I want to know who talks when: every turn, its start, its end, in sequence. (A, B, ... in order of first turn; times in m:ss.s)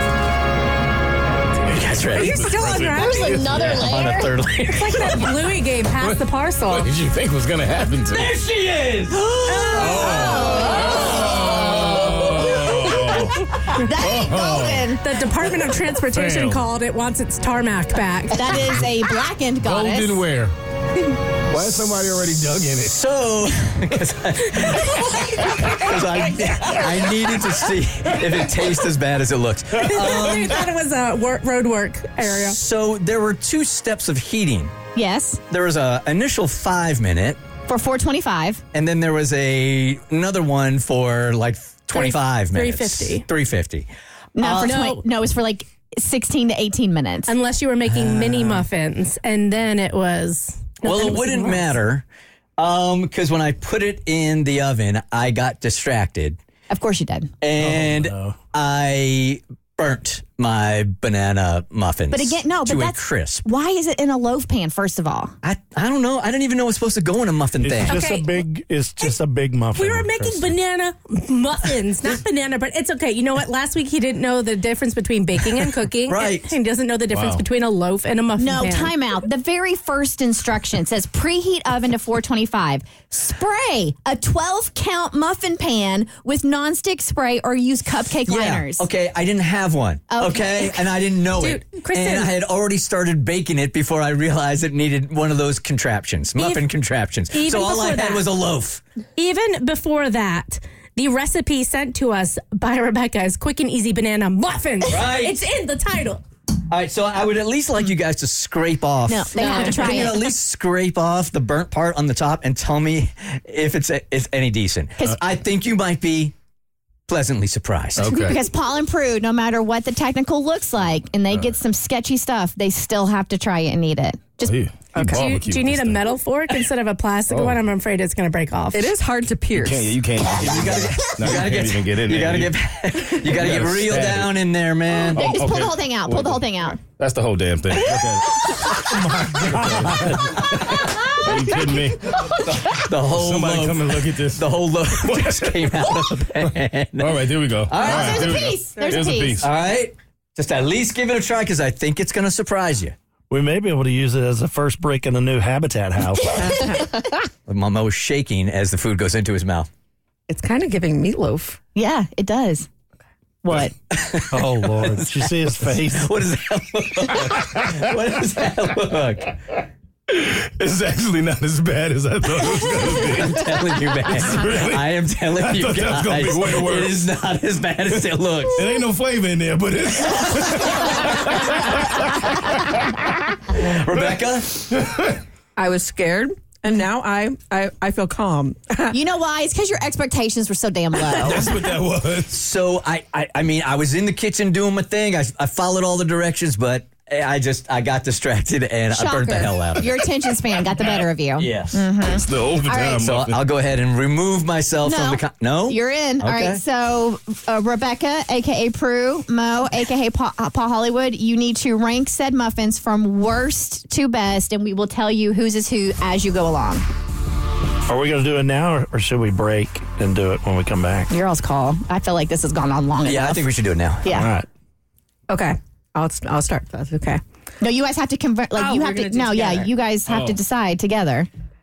0:01.7-0:02.7 A
0:01.7-0:04.0 B
0:02.2-0:03.4 C
0:03.0-0:04.2 D
0:03.5-0:05.3 A
0:04.7-0:06.9 C
0:06.0-0:08.4 B
0:08.1-0:12.5 A
0:09.4-0:15.0 D
0:09.7-0:14.9 B
0:15.0-0:18.4 C
0:16.0-0:16.6 B
0:18.3-0:20.2 D
0:19.6-0:20.5 B
0:21.5-0:23.0 B
0:22.8-0:30.6 A
0:29.9-0:32.6 C
0:30.0-0:30.5 B
0:32.2-0:34.7 A
0:34.9-0:35.4 D
0:35.5-0:37.4 A
0:37.7-0:38.6 D
0:38.7-0:43.9 A
0:41.9-0:43.2 C
0:44.4-0:47.3 D
0:44.4-0:44.9 A
0:44.6-0:45.0 C
0:47.3-0:51.6 C
0:47.8-0:48.6 A
0:50.8-0:52.0 A
0:52.6-0:56.4 A
0:56.7-0:57.3 D
0:57.4-1:03.4 A
0:57.6-0:58.4 E
1:02.1-1:05.3 D
1:05.4-1:08.2 A
1:07.6-1:10.5 E
1:07.9-1:08.3 C
1:09.7-1:18.9 C
1:16.1-1:16.5 A
1:17.1-1:17.4 B
1:18.4-1:28.9 D
1:28.3-1:38.8 A
1:30.1-1:30.8 D
1:31.4-1:32.3 C
1:36.4-1:36.6 C
1:37.3-1:38.2 C
1:39.2-1:46.2 C
1:44.9-1:45.4 A
1:46.7-1:56.3 A
1:49.1-1:50.2 D
1:57.1-1:58.1 A
1:58.0-1:58.4 B
1:58.1-2:04.5 D
2:04.4-2:06.1 B
2:04.9-2:05.2 F
2:05.1-2:08.9 C
2:07.3-2:07.6 B
2:08.7-2:10.0 F
2:09.5-2:12.5 B
2:10.4-2:15.3 A
2:13.2-2:14.3 B
2:15.1-2:16.8 D
2:15.1-2:22.0 B
2:18.9-2:19.9 E
2:22.4-2:28.3 A
2:23.1-2:26.0 B
2:27.0-2:29.4 B
2:27.8-2:29.4 D
2:29.4-2:32.9 A
2:33.3-2:36.4 E
2:36.4-2:36.8 F
2:36.4-2:37.0 D
2:37.5-2:39.7 A
2:40.3-2:41.6 F
2:41.7-2:42.7 D
2:43.4-2:43.7 D
2:43.9-2:49.4 A
2:44.3-2:46.1 E
2:50.1-2:57.0 B
2:53.0-2:58.6 A
2:58.5-3:02.0 B
3:03.6-3:04.7 A
3:04.8-3:05.0 B
3:05.6-3:08.9 F
3:08.9-3:11.5 D
3:11.1-3:12.4 B
3:12.3-3:20.0 A
3:18.9-3:23.0 D
3:21.4-3:21.8 A
3:22.1-3:23.4 B
3:23.0-3:26.6 A
3:24.8-3:36.8 D
3:37.9-3:41.1 E
3:41.1-3:43.5 D
3:43.0-3:44.1 A
3:44.0-3:44.3 D
3:44.1-3:44.4 E
3:45.3-3:47.2 F
3:47.6-3:51.3 D
3:48.6-3:49.7 F
3:50.1-3:50.3 B